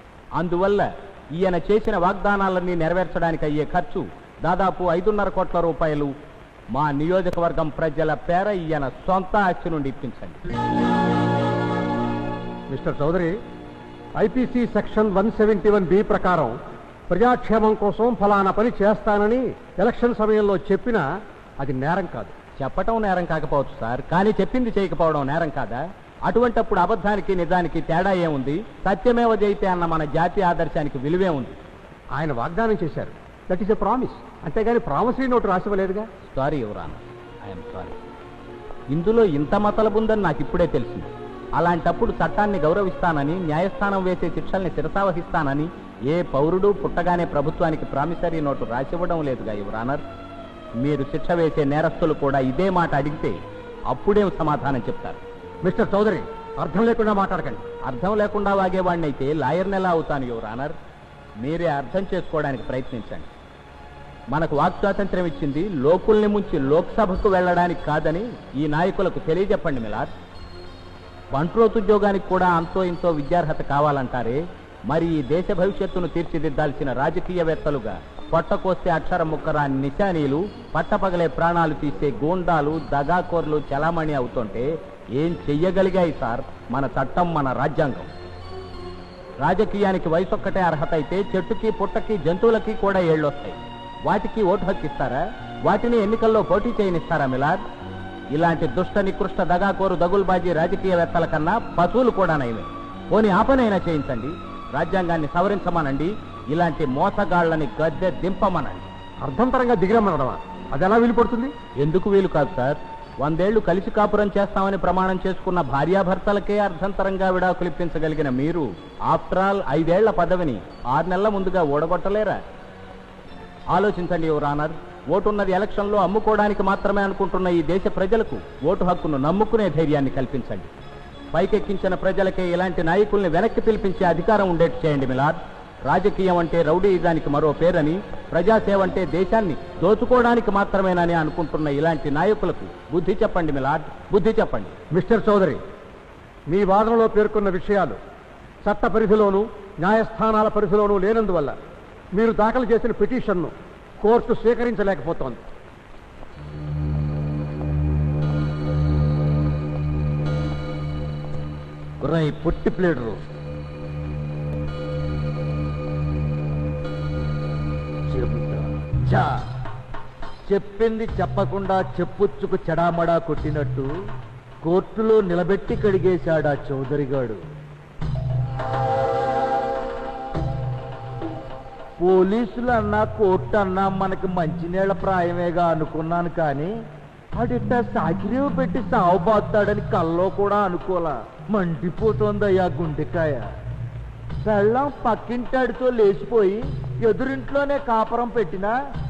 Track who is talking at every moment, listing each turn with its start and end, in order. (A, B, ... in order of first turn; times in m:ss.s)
0:00.4-0:06.1 A
0:06.7-0:10.4 A
0:12.7-0:13.4 B
0:14.2-0:16.6 B
0:17.1-0:21.0 B
0:21.6-0:22.3 B
0:22.6-0:31.6 A
0:32.1-0:36.1 B
0:36.3-0:38.0 A
0:38.9-0:50.0 A
0:50.8-0:53.3 A
0:53.9-0:55.2 A
0:55.6-0:57.6 B
0:57.9-1:00.7 A
1:01.4-1:03.3 A
1:04.3-1:10.1 A
1:11.3-1:28.1 A
1:29.4-1:37.6 A
1:38.3-1:48.9 A
1:49.2-1:51.5 B
1:51.8-2:02.4 A
2:03.7-2:10.7 A
2:11.3-2:24.7 A
2:24.9-2:25.6 B
2:26.5-2:28.0 B
2:28.6-2:31.6 B
2:32.1-2:35.4 B
2:42.0-2:43.2 C
2:48.1-2:49.4 C
2:50.5-2:53.9 C
2:54.6-2:57.4 C
3:02.0-3:06.7 C
3:07.4-3:13.5 C
3:14.4-3:18.7 C